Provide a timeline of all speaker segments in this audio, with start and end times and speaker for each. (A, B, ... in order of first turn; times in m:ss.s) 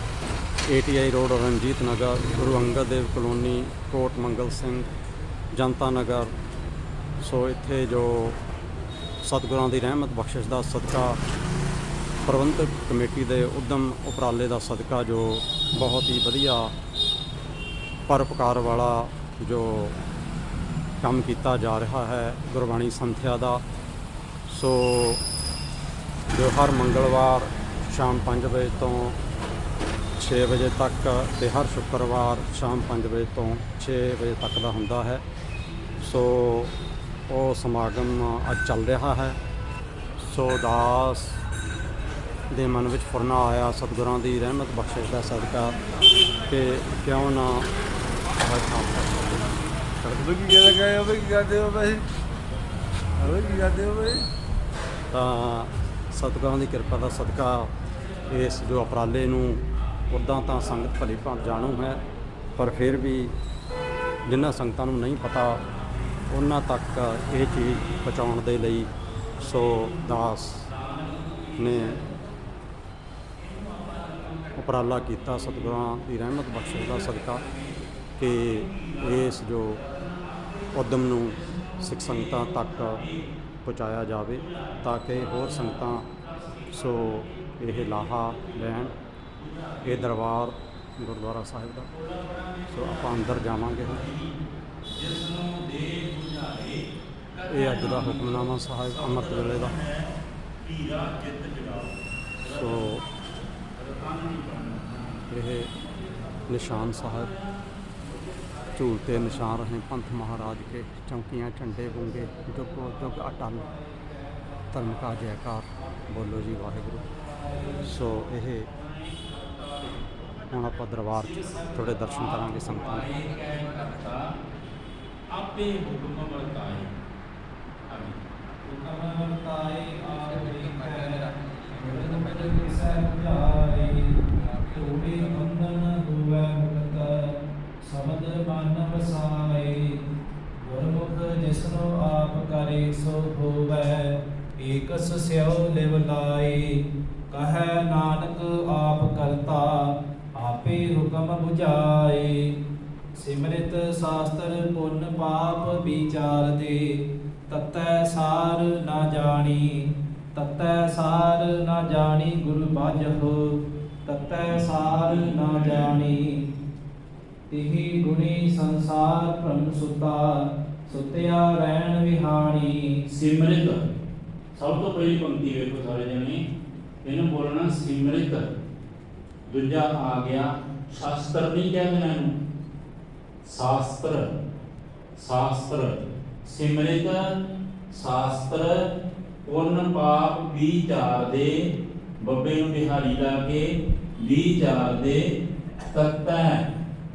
0:00.7-0:04.9 A
0:05.6-0:06.3 A
0:07.2-0:08.4 A
0:09.2-0:11.2 A
0:12.2-0:16.7 A
0:18.1-0:20.0 A
0:21.0-0:23.6 A
0:24.5-0:25.2 A
0:26.3-0:29.2 A
0:30.2-0:35.2 A
0:36.0-0:36.8 A
0:37.3-0:39.4 A
0:40.2-0:41.4 A
0:42.5-0:45.8 A
0:46.5-0:47.7 A
0:48.3-0:50.5 A
0:50.3-0:52.0 B
0:53.2-0:54.3 B
0:55.1-0:57.7 A
0:58.2-0:58.7 C
0:58.3-1:02.0 A
1:00.6-1:02.0 C
1:02.6-1:03.4 A
1:04.3-1:05.6 A
1:06.3-1:10.7 A
1:07.5-1:08.2 C
1:09.4-1:12.1 C
1:11.6-1:12.0 A
1:13.4-1:23.3 C
1:14.6-1:17.4 A
1:18.2-1:19.8 A
1:20.7-1:23.0 A
1:23.6-1:26.1 A
1:24.3-1:30.1 C
1:26.7-1:28.9 A
1:29.8-1:31.9 A
1:31.9-1:34.3 C
1:32.7-1:34.0 A
1:34.9-1:42.9 C
1:37.5-1:39.7 A
1:42.5-1:43.0 A
1:43.8-1:45.3 C
1:45.3-1:45.7 A
1:46.3-1:49.5 C
1:46.5-1:47.3 A
1:48.8-1:53.7 A
1:51.8-1:55.0 D
1:54.7-1:57.0 A
1:55.7-1:58.2 D
1:57.8-1:58.7 A
1:58.6-2:00.2 C
2:00.5-2:03.1 A
2:01.1-2:04.3 C
2:01.4-2:03.2 D
2:05.3-2:06.9 C
2:07.9-2:08.2 C
2:08.6-2:20.0 D
2:20.6-2:26.8 D
2:27.3-2:32.4 D
2:33.2-2:36.8 D
2:37.5-2:46.4 D
2:44.5-2:45.9 C
2:47.5-2:53.0 D
2:53.1-2:53.8 C
2:54.6-2:56.4 C
2:57.0-2:58.5 C
2:59.5-3:02.3 C
3:03.5-3:04.2 C
3:05.2-3:07.2 C
3:07.9-3:08.8 C
3:09.4-3:11.6 C
3:12.2-3:13.7 C
3:14.2-3:15.2 C
3:15.9-3:16.6 C